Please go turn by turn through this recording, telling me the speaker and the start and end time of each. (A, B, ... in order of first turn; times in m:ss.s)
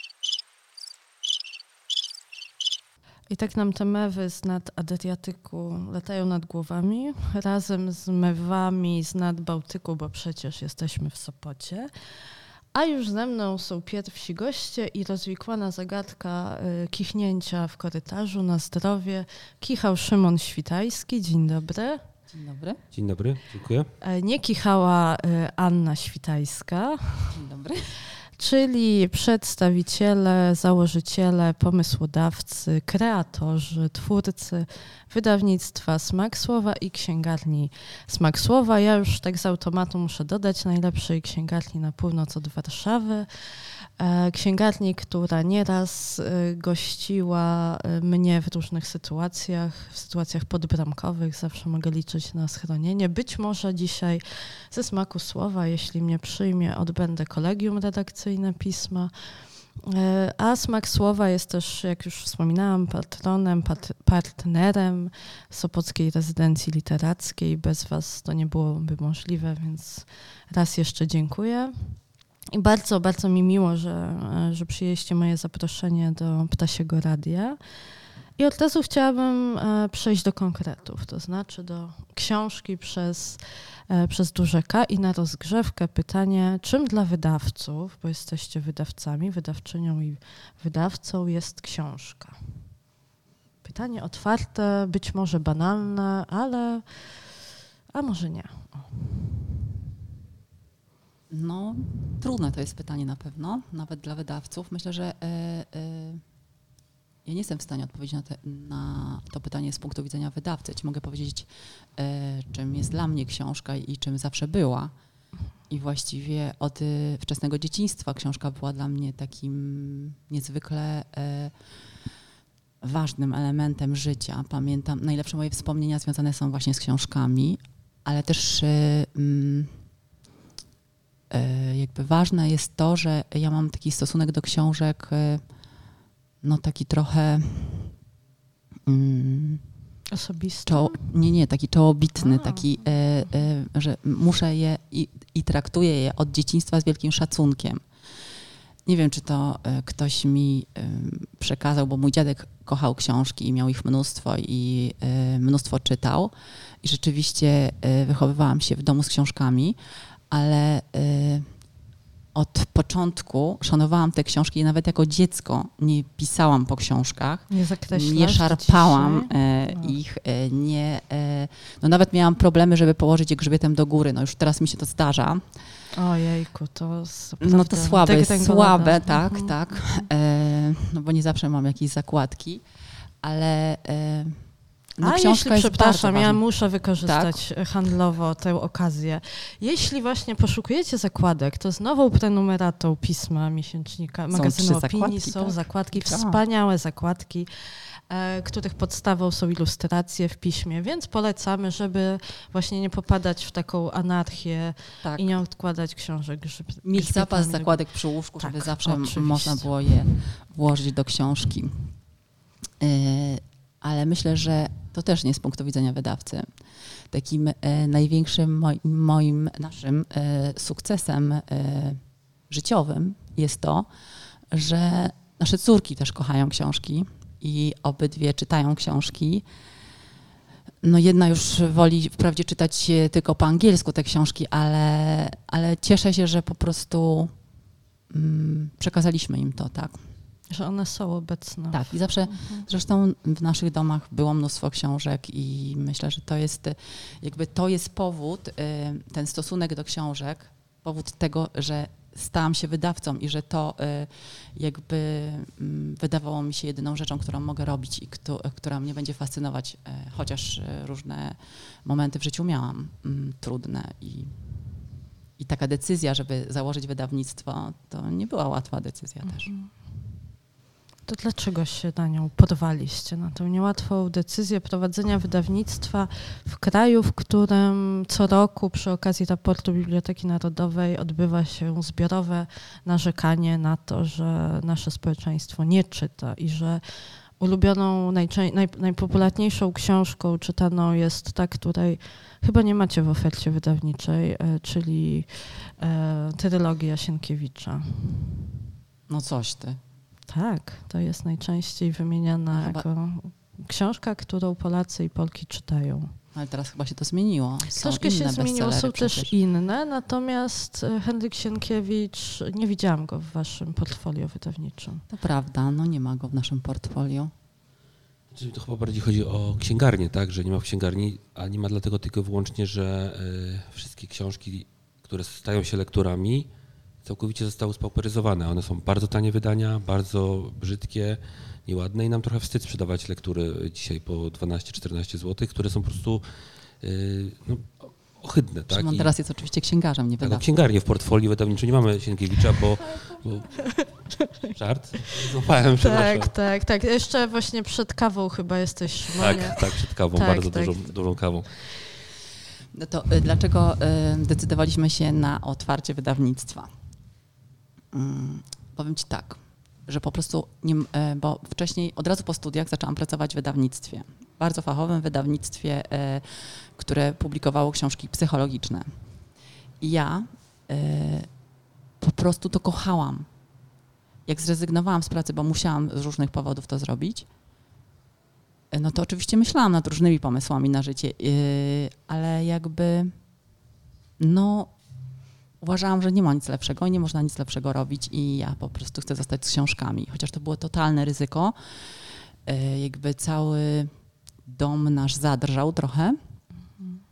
0:03.3-0:11.9 A
0:12.7-0:22.0 A
0:22.3-0:22.8 B
0:22.9-0:23.9 C
0:24.0-0:27.3 A
0:27.3-0:27.9 B
0:28.4-1:12.0 A
1:12.5-1:17.6 A
1:18.4-1:32.4 A
1:33.6-1:37.4 A
1:37.9-1:38.9 A
1:41.3-1:46.2 B
1:47.2-1:54.9 B
1:55.7-2:01.9 B
2:02.8-2:09.8 B
2:11.3-2:15.5 B
2:16.4-2:18.0 B
2:18.8-2:19.7 B
2:20.1-2:21.1 A
2:20.6-2:28.3 B
2:22.2-2:22.8 A
2:28.8-2:41.7 B
2:42.3-2:55.6 B
2:47.5-2:50.0 A
2:55.9-3:00.1 A
2:57.4-3:02.6 B
3:03.2-3:06.4 B
3:05.0-3:30.0 A
3:07.0-3:07.4 B
3:14.3-3:16.4 B
3:25.0-3:25.3 B
3:26.8-3:32.0 B
3:32.8-3:49.4 B
3:50.8-3:57.4 B
3:58.1-4:00.1 B
4:00.5-4:02.6 A
4:01.7-4:24.4 B
4:25.4-4:29.5 B
4:29.2-4:29.9 A
4:31.1-4:58.4 A
4:59.1-4:59.8 B
5:00.3-5:06.1 A
5:02.5-5:02.9 B
5:06.3-5:09.3 B
5:07.7-5:15.0 A
5:15.1-5:17.3 B
5:18.3-5:26.5 C
5:27.0-5:36.2 C
5:36.8-5:39.1 C
5:38.7-5:40.5 B
5:40.2-5:46.3 C
5:42.8-5:44.5 A
5:45.8-5:50.9 A
5:49.2-5:51.6 C
5:52.7-5:56.7 B
5:57.9-6:09.0 B
6:09.8-6:11.3 B
6:12.0-6:13.3 B
6:14.2-6:17.3 B
6:18.7-6:23.2 B
6:24.2-6:24.8 B
6:25.6-6:36.2 B